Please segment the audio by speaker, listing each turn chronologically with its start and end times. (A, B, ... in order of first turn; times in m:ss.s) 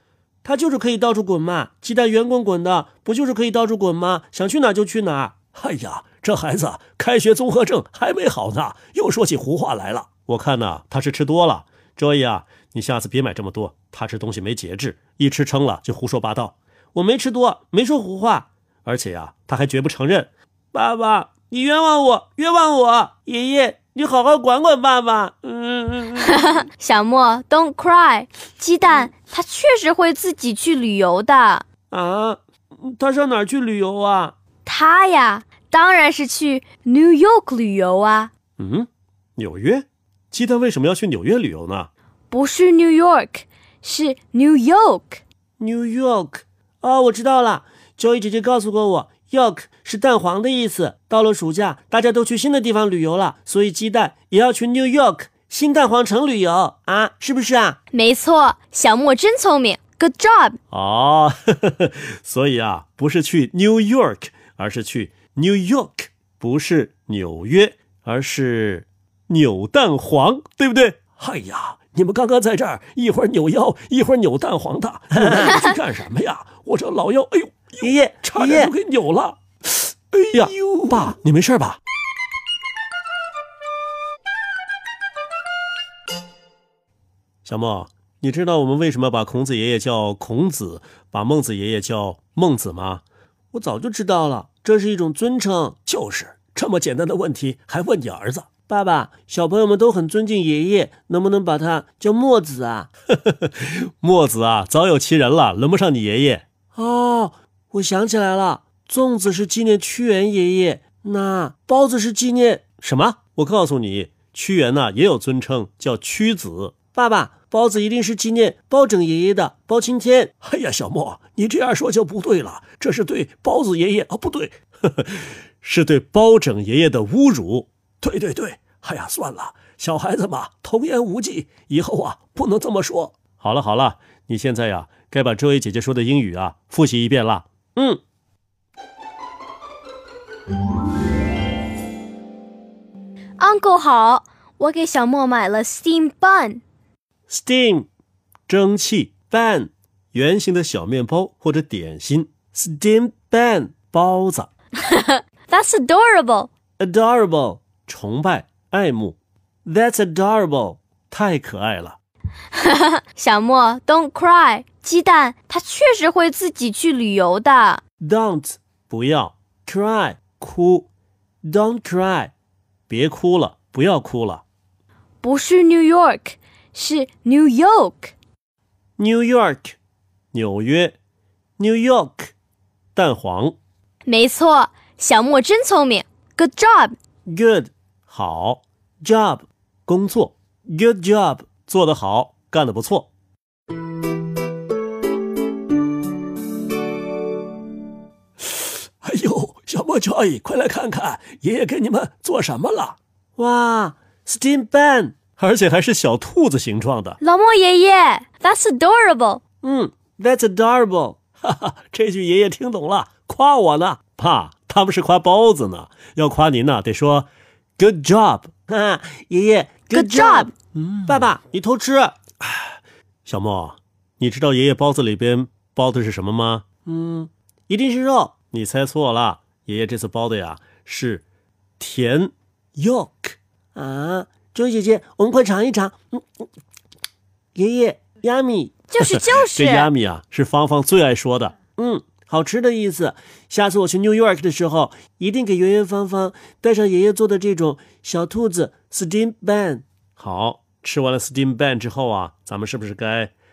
0:00.4-0:05.4 A
0:05.5-0:16.6 B
0:17.0-0:18.5 A
0:18.8-0:21.4 B
0:20.8-0:26.3 A
0:26.2-0:31.6 C
0:31.9-0:34.3 A
0:34.6-0:38.3 C
0:38.6-0:41.9 B
0:42.3-0:45.2 C
0:45.6-0:57.8 A
0:57.9-1:00.6 C
1:00.7-1:19.4 B
1:15.2-1:15.6 A
1:17.8-1:18.8 A
1:20.1-1:21.8 B
1:20.3-1:21.2 A
1:27.4-1:33.0 B
1:33.5-1:35.9 A
1:35.9-1:38.5 B
1:38.6-1:42.9 A
1:43.3-1:46.4 B
1:46.7-1:52.8 A
1:52.8-1:56.8 B
1:56.8-2:00.4 A
2:00.4-2:17.5 B
2:17.8-2:18.0 A
2:23.4-2:26.6 C
2:27.3-2:27.9 A
2:28.5-2:29.2 B
2:29.2-2:29.7 A
2:30.1-2:32.4 B
2:32.5-2:34.5 A
2:34.8-2:36.5 C
2:36.8-2:37.8 A
2:37.8-2:39.2 B
2:39.6-2:41.4 A
2:41.1-2:42.0 B
2:42.5-2:47.8 C
2:48.0-2:48.6 A
2:48.9-2:49.4 B
2:49.6-2:50.9 A
2:51.4-2:52.3 A
2:52.9-2:54.4 B
2:55.2-2:58.1 C
2:59.0-2:59.8 A
3:00.3-3:01.0 B
3:01.6-3:02.3 A
3:03.0-3:03.6 B
3:04.0-3:07.0 C
3:07.2-3:07.7 A
3:08.1-3:08.6 B
3:09.0-3:11.6 A
3:09.9-3:10.3 B
3:11.6-3:13.1 B
3:19.0-3:23.0 B
3:23.4-3:25.2 A
3:25.4-3:27.2 B
3:27.2-3:29.4 C
3:29.6-3:31.2 A
3:31.4-3:38.4 B
3:38.4-3:40.5 A
3:39.9-3:40.5 C
3:40.8-3:41.3 B
3:41.0-3:42.2 A
3:43.3-3:46.6 B
3:46.8-3:48.4 A
3:48.5-3:51.2 B
3:51.8-3:52.3 B
3:52.8-3:56.2 A
3:57.6-3:58.8 A
3:58.9-3:59.9 C
3:59.0-4:01.6 B
4:01.7-4:09.8 A
4:10.2-4:13.3 B